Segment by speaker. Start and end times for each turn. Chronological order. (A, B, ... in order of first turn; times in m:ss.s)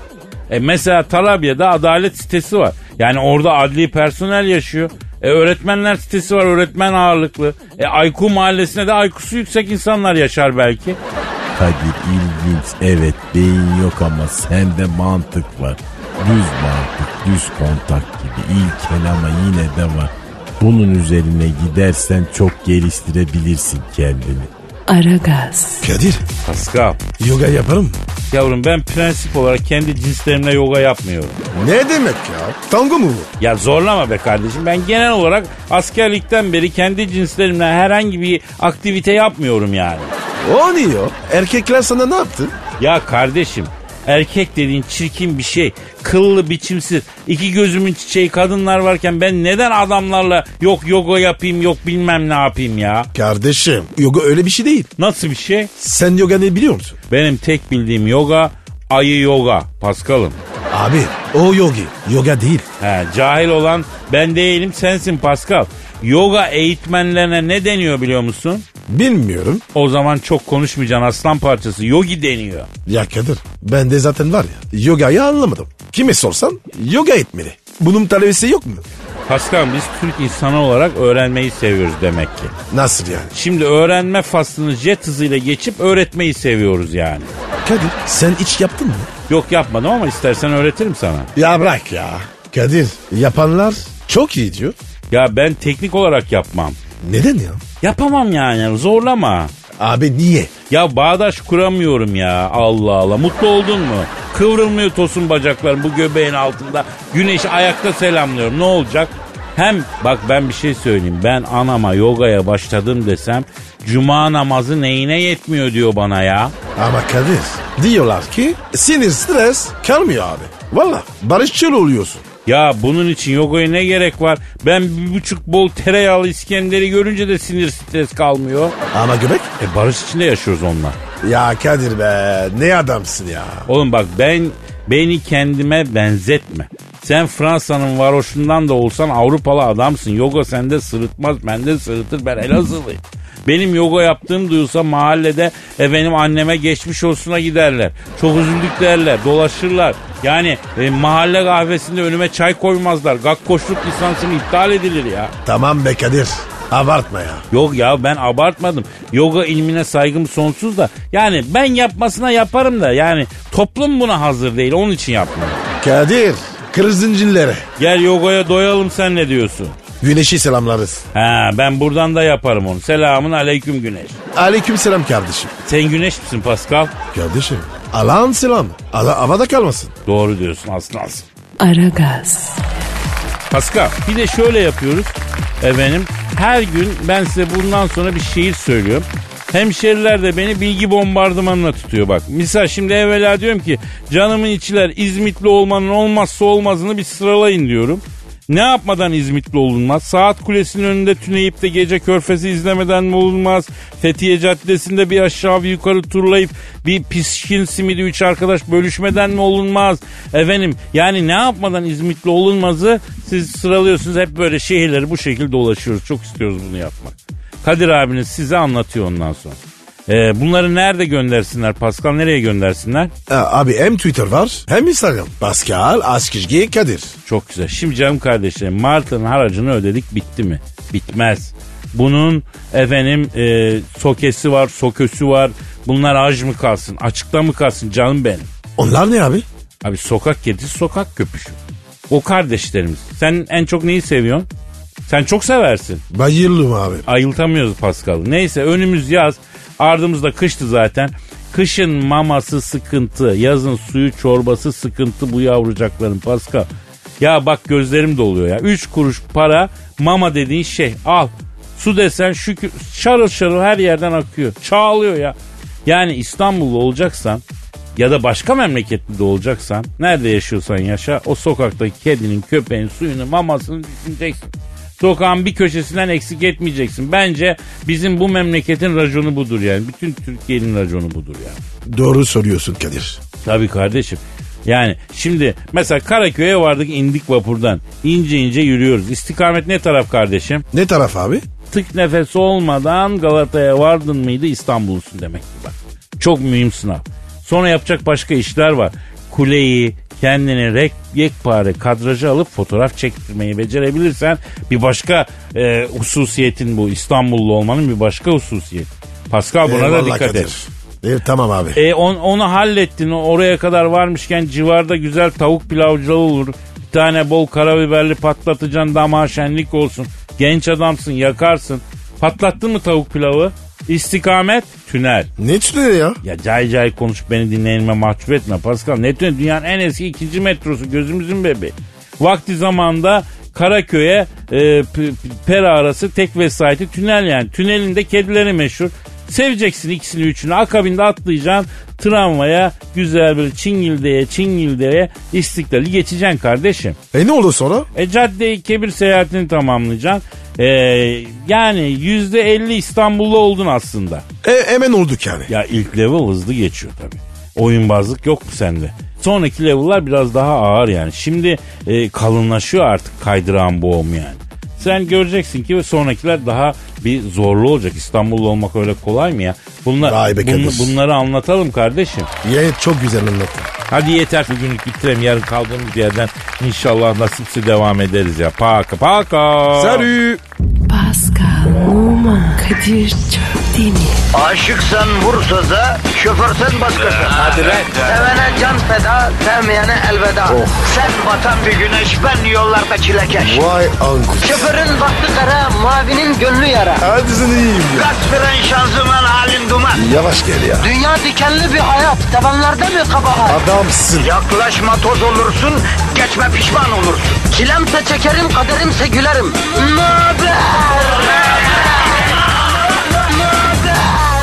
0:00.5-0:11.0 A
0:11.6-0:24.5 B
0:24.9-0:25.9 C
0:25.8-0:26.2 D
0:26.4-0:27.0 A
0:27.2-0:28.0 D
0:28.3-0:31.4 A
0:31.5-0:33.3 D
0:33.4-0:40.1 A
0:40.4-0:42.6 D
0:42.8-0:53.1 A
0:53.1-0:54.9 D
0:55.0-0:55.7 A
0:55.8-0:57.0 D
0:57.1-1:00.4 A
1:00.7-1:02.7 D
1:02.8-1:08.6 A
1:08.9-1:09.6 D
1:09.7-1:12.7 A
1:12.9-1:18.8 D
1:19.3-1:22.5 A
1:22.7-1:23.3 D
1:23.3-1:27.3 A
1:27.6-1:29.1 D
1:29.3-1:31.3 A
1:31.4-1:34.8 D
1:35.1-1:36.8 A
1:37.0-1:37.6 D
1:37.8-1:39.5 A
1:39.8-1:40.5 D
1:40.7-1:56.5 A
1:56.8-2:02.2 D
2:02.5-2:08.8 A
2:08.9-2:09.5 D
2:09.6-2:11.0 A
2:11.2-2:13.7 D
2:13.7-2:35.3 A
2:35.4-2:37.4 D
2:37.5-2:45.7 A
2:45.8-2:47.6 D
2:47.8-2:49.8 A
2:50.0-2:51.0 D
2:51.1-2:54.2 A
2:54.4-2:55.5 D
2:55.6-2:56.9 A
2:57.1-2:59.9 D
3:00.1-3:01.3 A
3:01.6-3:02.6 C
3:03.5-3:43.1 A
3:43.3-3:47.1 D
3:47.3-3:58.5 A
3:58.8-3:59.4 D
3:59.8-4:01.6 A
4:02.1-4:04.5 A
4:05.1-4:06.0 A
4:06.1-4:07.0 D
4:07.1-4:16.7 A
4:17.2-4:27.4 A
4:28.0-4:41.6 A
4:41.9-4:43.2 D
4:43.4-4:50.6 A
4:50.7-4:51.4 D
4:51.7-5:10.5 A
5:09.6-5:11.8 D
5:11.8-5:25.3 A
5:25.4-5:26.2 D
5:26.2-5:47.0 A
5:47.1-5:47.9 D
5:48.0-5:54.2 A
5:54.4-5:55.5 D
5:55.5-6:12.3 A
6:10.0-6:10.9 D
6:12.4-6:13.7 D
6:13.9-6:20.1 A
6:19.7-6:20.4 D
6:20.9-6:24.2 C
6:24.3-6:33.7 E
6:30.5-6:30.9 D
6:33.4-6:34.7 D
6:34.4-6:37.0 E
6:37.0-6:38.1 D
6:38.0-6:40.0 E
6:39.9-6:40.9 D
6:40.8-6:43.6 E
6:43.5-6:44.3 D
6:44.2-6:51.9 E
6:53.3-6:54.2 E